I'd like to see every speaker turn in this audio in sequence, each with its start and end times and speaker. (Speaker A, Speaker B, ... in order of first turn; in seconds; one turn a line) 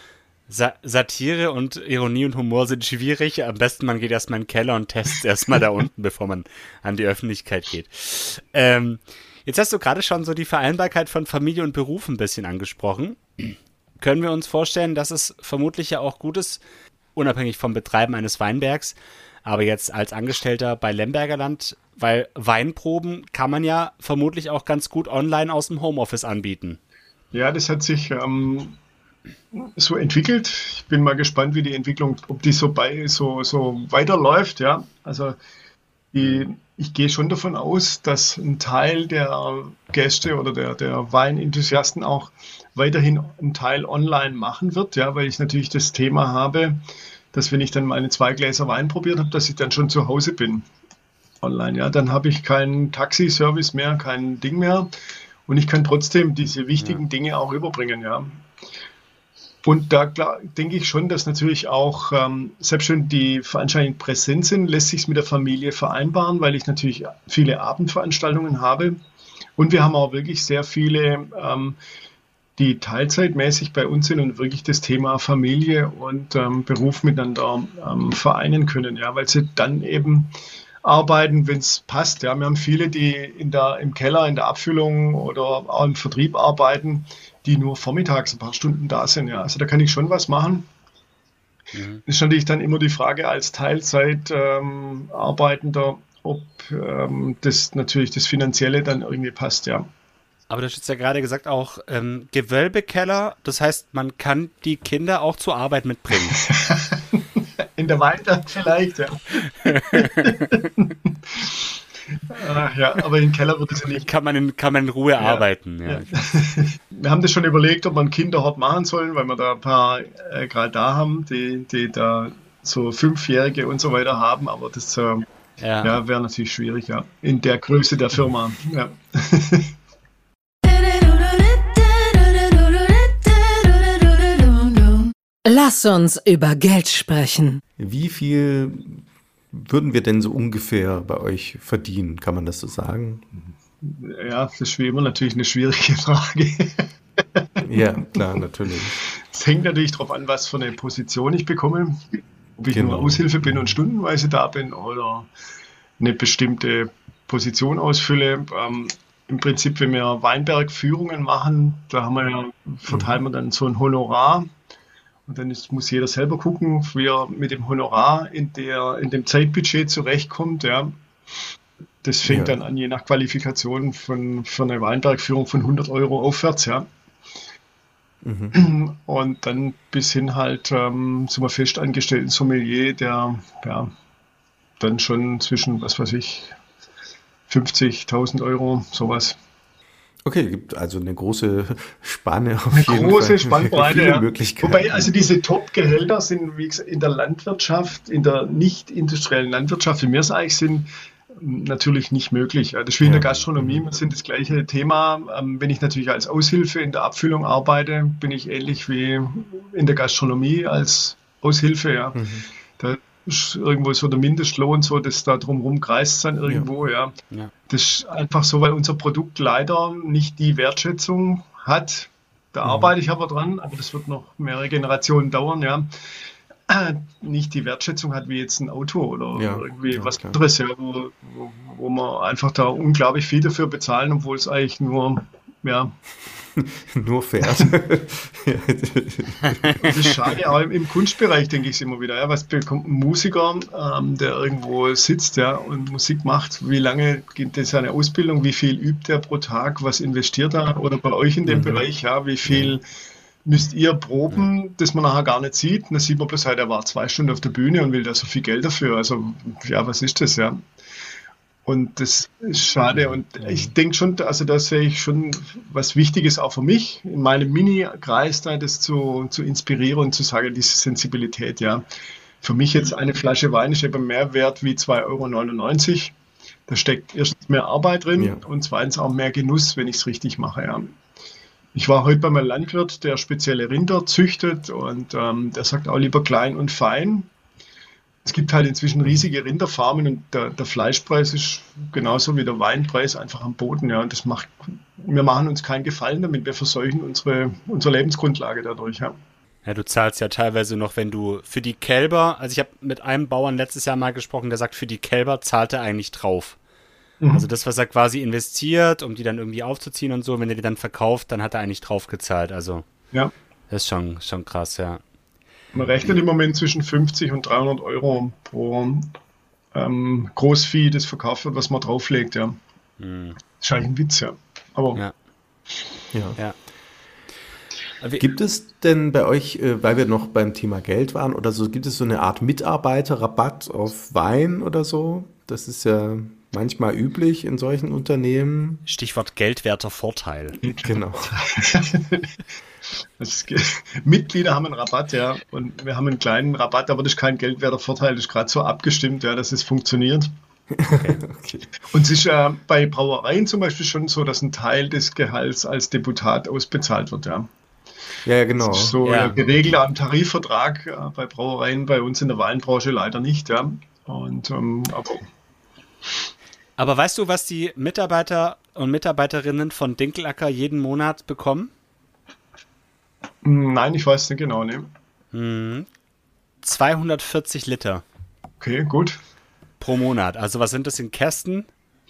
Speaker A: 0.5-16.6
Speaker A: 17.1-26.8
Speaker B: 27.3-28.8
Speaker B: 29.5-35.4
Speaker B: 36.1-46.8
Speaker B: 47.3-50.6
Speaker B: 51.4-54.9
Speaker B: 55.5-58.4
Speaker B: 59.6-69.0
Speaker B: 69.6-71.8
Speaker B: 72.6-90.7
Speaker A: 91.7-92.0
Speaker B: 92.0-99.8
Speaker A: 100.5-106.4
Speaker B: 106.3-107.2
Speaker B: 107.8-111.7
Speaker A: 109.6-110.3
Speaker B: 112.3-114.1
Speaker A: 114.0-116.1
Speaker B: 115.2-125.2
Speaker A: 125.6-126.0
Speaker B: 125.8-129.7
Speaker C: 135.4-137.6
Speaker D: 137.8-143.2
Speaker B: 143.8-148.3
Speaker D: 147.6-149.0
Speaker B: 149.0-155.3
Speaker D: 152.7-153.7
Speaker B: 156.0-164.5
Speaker D: 162.9-163.2
Speaker B: 165.3-171.0
Speaker B: 172.0-176.8
Speaker D: 172.3-172.6
Speaker D: 178.2-178.6
Speaker B: 178.5-183.9
Speaker B: 184.8-186.5
Speaker B: 187.5-189.3
Speaker D: 190.2-195.1
Speaker B: 192.7-212.2
Speaker D: 203.0-203.8
Speaker D: 212.1-212.4
Speaker B: 212.8-217.1
Speaker B: 217.7-225.9
Speaker D: 222.6-222.9
Speaker B: 226.7-235.9
Speaker D: 229.3-230.4
Speaker D: 236.6-239.9
Speaker B: 239.8-252.8
Speaker D: 251.4-251.8
Speaker D: 252.4-252.8
Speaker B: 253.4-260.6
Speaker B: 261.6-271.8
Speaker D: 263.4-263.7
Speaker B: 272.4-276.1
Speaker B: 276.7-280.9
Speaker B: 281.7-287.3
Speaker B: 288.2-299.1
Speaker A: 299.6-306.6
Speaker B: 307.2-307.4
Speaker A: 307.3-312.8
Speaker A: 313.7-315.0
Speaker B: 315.7-319.1
Speaker B: 319.7-322.6
Speaker A: 323.0-323.4
Speaker B: 323.6-325.0
Speaker D: 326.1-326.4
Speaker D: 328.2-338.8
Speaker A: 338.9-340.6
Speaker D: 340.6-341.4
Speaker B: 341.2-342.4
Speaker B: 343.2-350.3
Speaker D: 350.7-351.7
Speaker B: 351.9-357.5
Speaker D: 358.2-359.4
Speaker B: 358.6-365.2
Speaker A: 359.0-359.4
Speaker A: 366.8-371.7
Speaker B: 373.4-374.9
Speaker A: 375.3-375.9
Speaker A: 376.6-378.0
Speaker B: 378.6-379.2
Speaker A: 379.8-381.7